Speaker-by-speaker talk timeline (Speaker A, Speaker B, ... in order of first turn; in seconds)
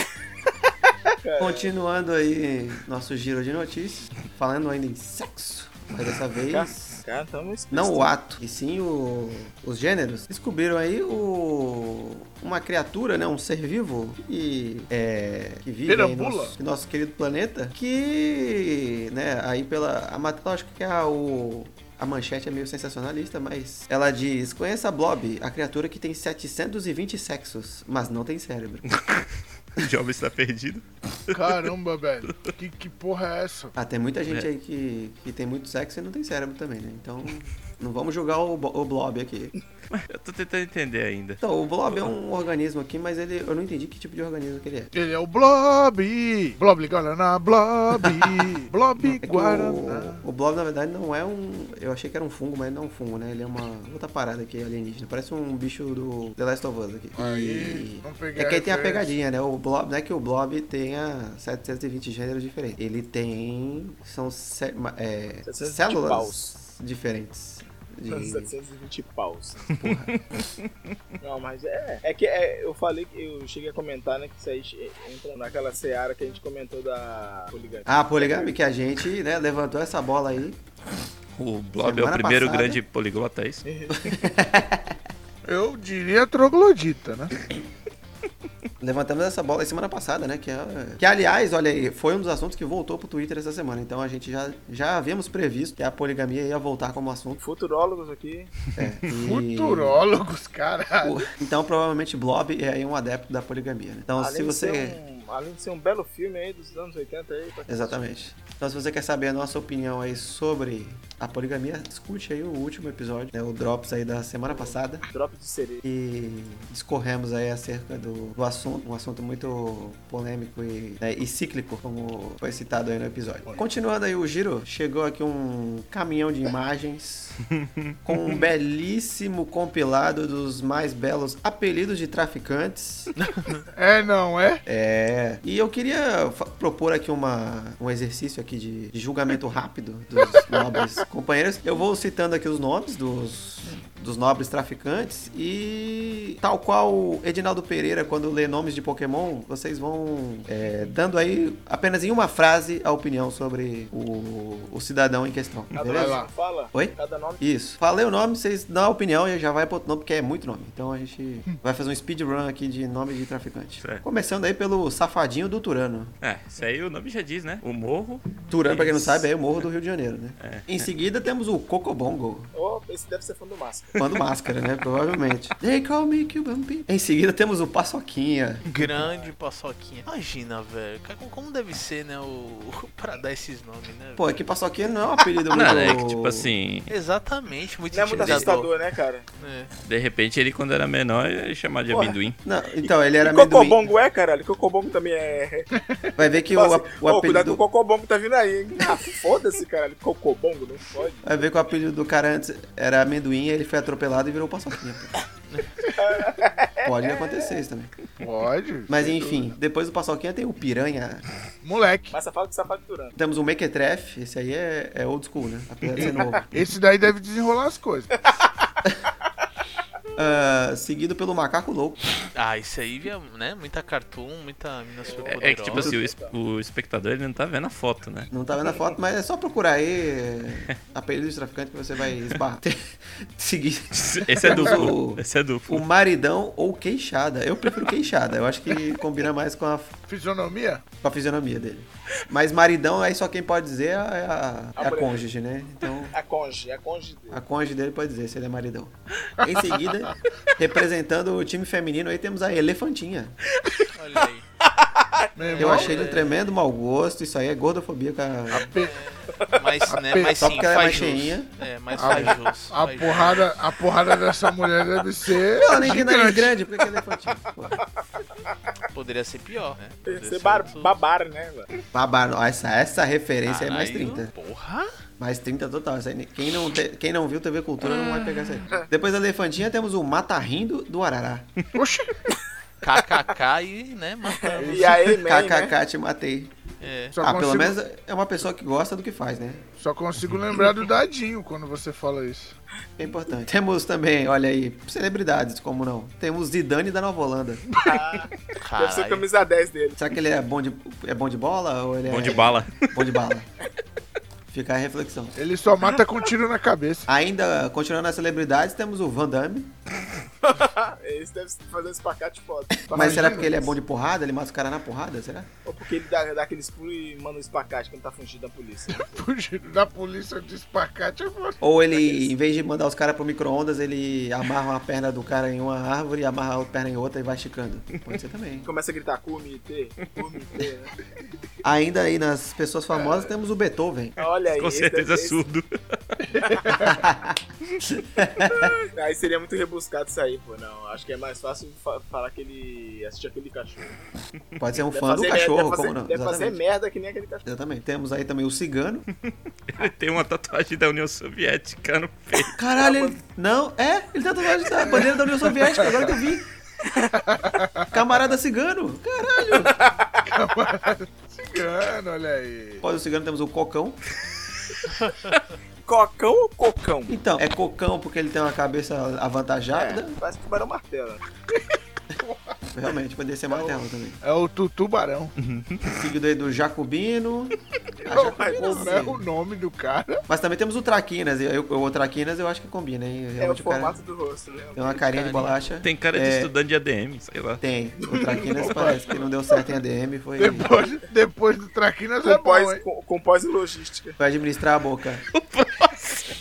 Speaker A: 1.1-1.7, 6.5-8.1, 65.5-66.5, 68.1-69.7, 71.2-78.6, 83.7-84.2, 97.4-98.6, 104.2-108.0, 114.5-115.8, 155.7-157.4, 172.5-174.0, 179.0-179.3, 187.9-189.2, 191.9-192.2, 193.2-195.7, 196.4-201.6, 205.9-207.5, 212.1-213.2, 216.0-216.4, 225.0-226.3, 244.8-245.2, 246.1-247.4, 254.9-255.3, 270.1-271.7, 284.3-285.7, 297.8-300.0, 310.4-313.7, 315.6-319.2, 328.6-330.9, 333.0-333.3, 334.2-335.4, 336.5-336.8, 338.5-344.0, 344.9-347.4, 352.8-353.2, 356.9-357.1, 359.6-360.2, 365.9-367.1, 369.7-371.2, 373.5-373.8, 378.0-379.1, 383.4-385.0, 388.1-388.4, 392.2-394.2
Speaker B: 1.4-7.0, 7.7-28.9, 33.8-39.5, 41.4-44.9, 49.2-68.5, 69.8-70.1, 77.9-80.6, 81.8-82.8, 83.9-85.0, 88.8-97.4, 98.8-100.0, 101.0-105.0, 107.7-115.0, 115.8-127.4, 128.1-133.1, 134.7-156.2, 156.7-166.1, 168.5-172.5, 173.9-178.6, 184.2-186.5, 192.4-193.9, 196.2-197.6, 201.2-205.2, 206.8-207.9, 208.9-211.2, 213.2-216.5, 220.2-222.0, 228.3-240.0, 241.0-246.2, 247.3-253.3, 255.6-258.7, 260.4-261.5, 265.5-267.8, 271.9-274.3, 275.2-281.5, 285.0-286.5, 287.2-289.7, 293.0-297.6, 300.0-303.5, 304.5-305.4, 307.1-309.7, 312.9-315.5, 321.6-328.7, 331.6-334.2, 336.8-338.7, 344.6-346.6, 347.4-349.1, 352.6-356.5, 357.9-359.8, 362.8-364.0, 367.1-370.2, 372.7-374.2, 376.0-379.3, 380.3-384.0, 384.8-386.5, 387.6-390.7, 394.2-395.2
Speaker C: 15.8-16.6, 31.3-33.7, 44.9-50.2, 57.2-59.2, 85.5-87.3, 99.1-101.2, 133.7-134.6, 155.9-156.3, 195.8-196.1, 208.2-209.5, 211.6-212.2, 216.0-218.1, 240.1-240.8, 255.4-256.1, 258.5-259.0, 259.9-260.5, 261.9-266.6, 281.7-282.2, 284.6-284.9, 287.1-287.8, 289.8-292.6, 305.4-307.1, 312.9-313.5, 318.9-321.6, 336.3-336.9, 355.6-356.1, 357.2-357.9, 360.3-362.9, 372.2-372.6, 374.2-375.3, 378.1-380.2, 388.1-389.3, 390.4-392.8
Speaker D: 28.9-29.2, 29.8-31.6, 39.9-41.4, 69.8-70.5, 81.4-83.7, 127.6-127.9, 166.2-169.2, 170.4-170.9, 185.5-186.9, 189.9-192.4, 225.3-228.3, 233.9-235.8, 302.1-303.0, 334.5-336.3, 349.7-352.6, 375.4-376.0, 385.8-387.6, 395.5-395.9
Speaker E: 133.2-133.6, 178.7-184.4, 186.9-188.7, 189.4-189.7, 222.3-225.9, 253.9-254.5, 255.5-256.4, 258.9-263.5, 268.9-270.9, 273.4-274.9, 282.8-285.0, 286.8-287.2, 298.6-299.3, 385.1-385.6